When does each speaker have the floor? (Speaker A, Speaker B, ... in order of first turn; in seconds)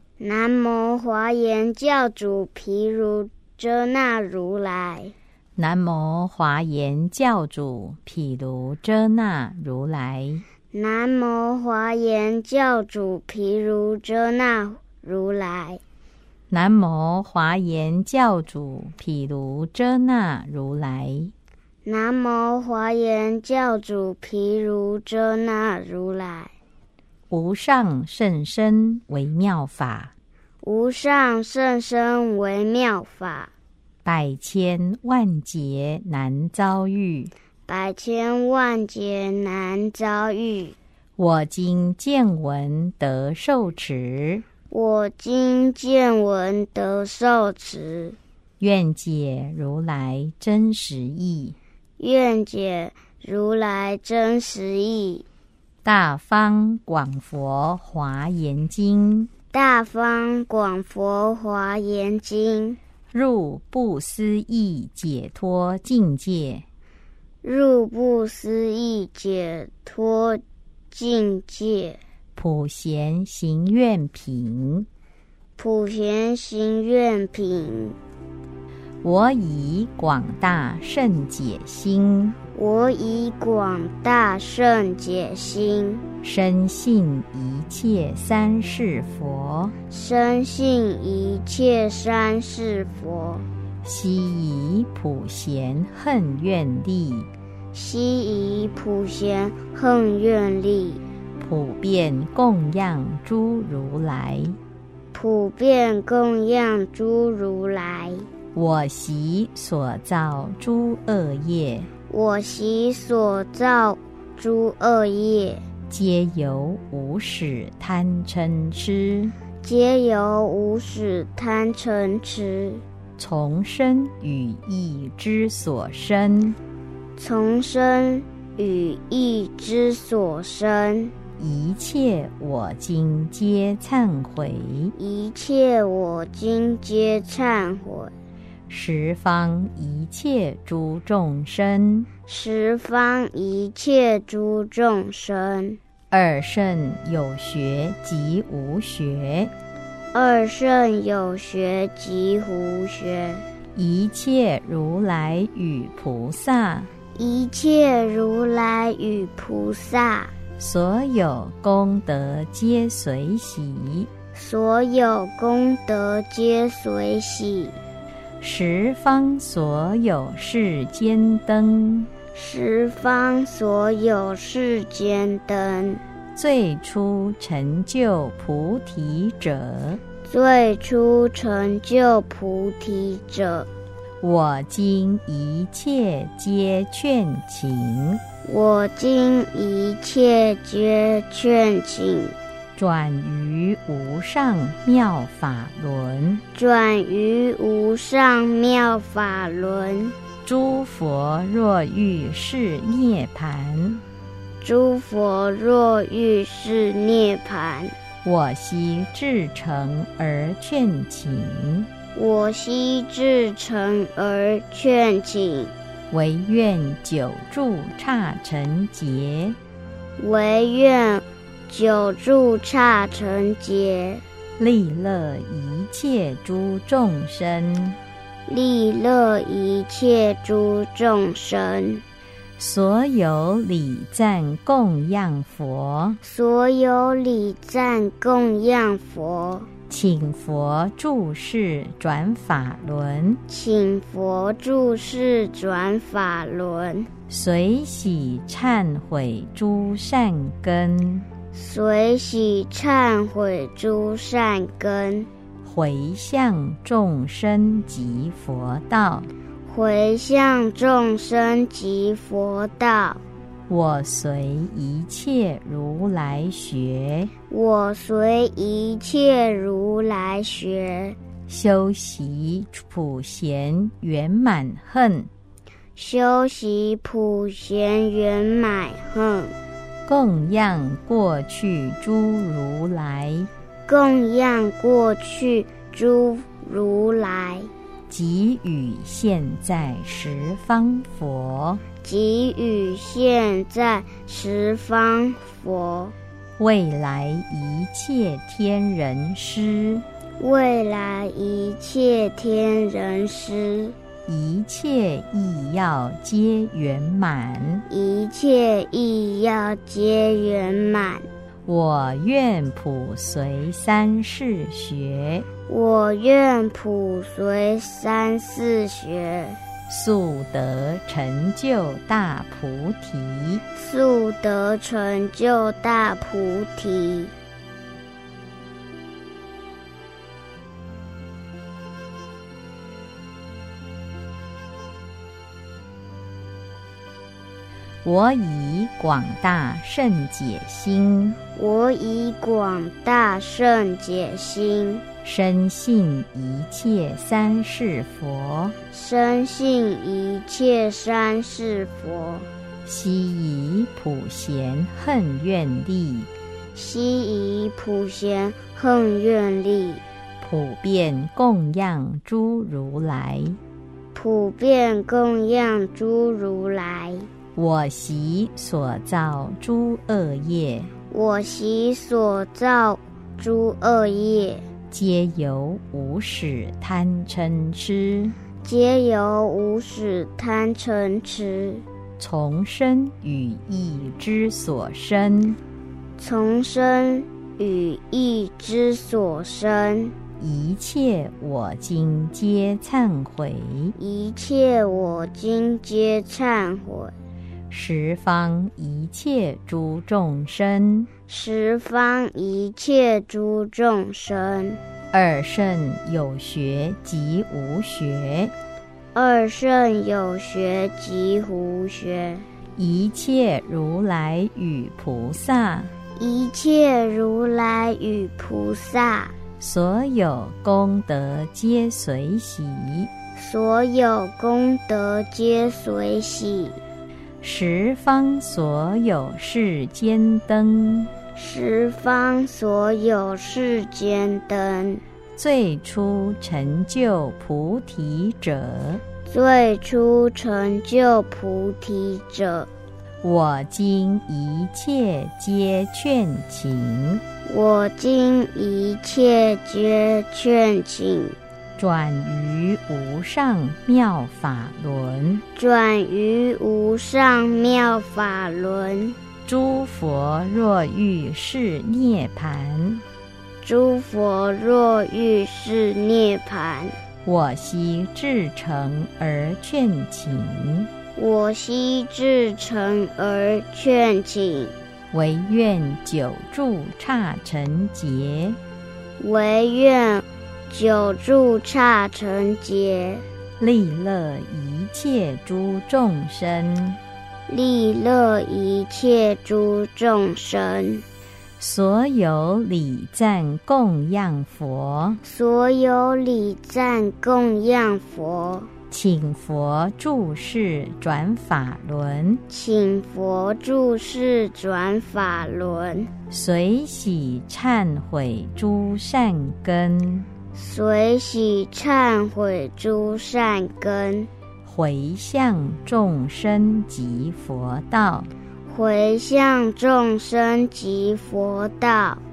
Speaker A: 0.2-5.1, 10.7-15.8, 21.8-26.5, 30.6-33.5, 37.7-40.7, 44.7-48.2, 52.0-55.2, 59.5-62.8, 67.4-72.0, 75.6-78.0, 82.5-86.0, 89.9-93.5, 97.7-101.0, 105.1-108.3, 112.1-115.6, 119.6-122.8, 127.2-131.1, 134.9-138.1, 142.3-145.8, 150.1-153.4, 157.1-160.3, 164.3-167.8, 172.3-176.0, 180.2-183.7, 188.4-192.3, 196.5-200.2, 204.6-207.9, 212.1-215.7, 220.2-224.2, 228.5-232.0, 236.2-239.7, 243.5-247.1, 251.5-255.3, 259.6-263.2, 267.5-271.2, 275.9-279.5, 283.9-287.7, 292.0-296.1, 300.4-303.9, 307.9-311.3, 315.7-319.6, 323.7-327.3, 341.5-345.0, 348.9-352.5, 356.7-360.0, 364.1-367.3, 371.1-374.6, 378.6-381.8, 386.2-390.1, 393.9-397.1, 401.3-404.8, 409.1-412.5, 416.1-419.3, 423.3-426.8, 431.3-435.0, 439.2-442.7, 447.4-451.4, 455.5-459.2, 463.6-467.0, 471.1-474.7, 479.2-483.2, 487.5-491.0, 495.2-498.7, 502.5-506.1, 510.5-514.3, 518.7-522.2
Speaker B: 5.5-10.4, 16.5-21.3, 27.3-30.1, 34.0-37.3, 41.2-44.5, 48.6-51.5, 55.8-59.3, 63.1-66.6, 72.3-74.9, 79.0-82.4, 86.2-89.7, 93.8-97.3, 101.4-104.6, 108.5-111.9, 115.9-119.3, 123.2-126.6, 131.4-134.9, 138.7-142.1, 146.1-149.5, 153.7-156.9, 160.6-164.1, 168.4-172.1, 176.3-180.0, 184.2-188.2, 192.8-196.4, 200.4-204.0, 208.2-211.9, 216.1-219.6, 224.6-228.0, 232.6-236.2, 239.9-243.4, 247.3-251.2, 255.6-259.3, 263.7-267.3, 271.5-275.3, 280.1-283.5, 288.1-291.8, 296.6-300.0, 304.3-307.8, 311.6-315.4, 319.9-323.6, 338.0-341.4, 345.2-348.8, 352.8-356.3, 360.4-363.6, 367.6-370.9, 374.9-378.3, 382.2-385.6, 390.4-393.9, 397.7-401.1, 405.1-408.5, 412.8-415.9, 419.6-423.1, 427.4-431.1, 435.4-439.0, 443.2-447.2, 451.8-455.4, 459.5-463.0, 467.2-470.9, 475.1-478.6, 483.6-487.0, 491.6-495.2, 498.9-502.4, 506.3-510.3, 514.6-518.3